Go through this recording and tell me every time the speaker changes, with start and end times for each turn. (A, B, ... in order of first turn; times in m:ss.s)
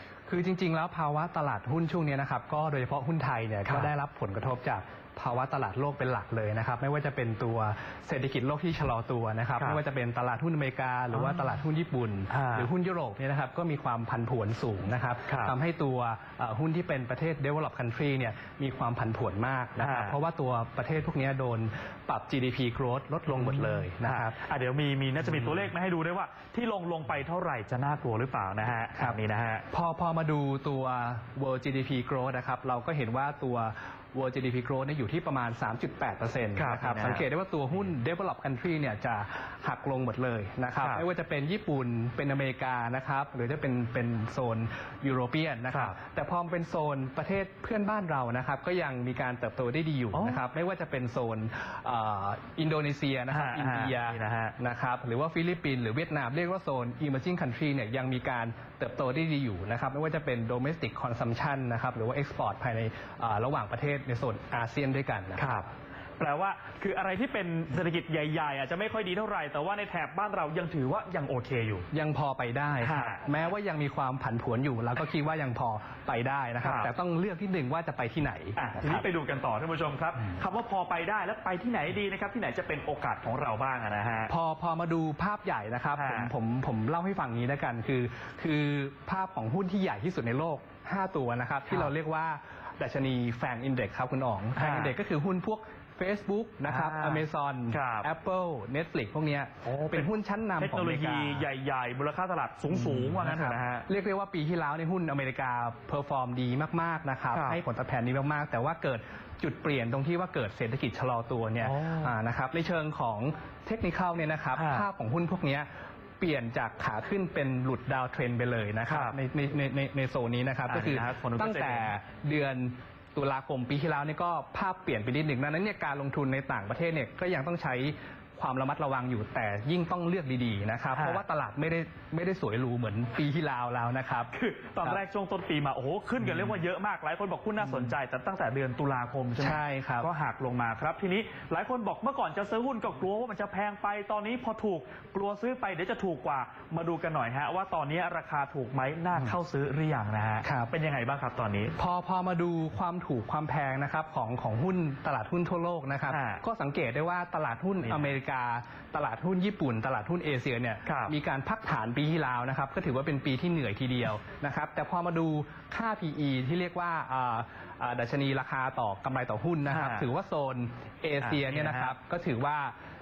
0:00.3-0:24.4 A
0:11.1-0:11.5 B
0:12.3-0:12.7 B
0:15.3-0:15.6 B
0:19.8-0:20.2 B
0:23.3-0:29.7 B
0:29.7-1:05.4 A
0:36.6-0:37.3 B
0:40.8-0:41.1 B
0:50.1-0:50.4 B
0:53.3-0:54.6 B
1:05.4-1:05.7 B
1:06.2-1:11.9 B
1:11.9-1:19.0 A
1:12.8-1:13.2 B
1:16.6-1:16.9 B
1:18.6-1:24.3 B
1:24.3-1:41.5 A
1:25.9-1:26.3 B
1:34.6-1:35.0 B
1:36.7-1:38.1 B
1:39.6-1:43.9 B
1:42.7-1:55.7 A
1:47.3-1:47.6 B
1:51.6-1:52.2 B
1:54.6-1:54.9 B
1:56.2-2:14.3 A
1:58.9-1:59.2 B
2:00.7-2:01.9 B
2:11.0-2:11.2 B
2:14.3-2:31.8 B
2:16.3-2:16.5 A
2:17.6-2:17.9 A
2:19.4-2:20.1 A
2:30.4-2:30.7 A
2:31.8-2:52.8 A
2:36.1-2:36.4 B
2:37.8-2:38.1 B
2:40.8-2:41.2 B
2:49.7-2:50.1 B
2:51.2-2:52.0 B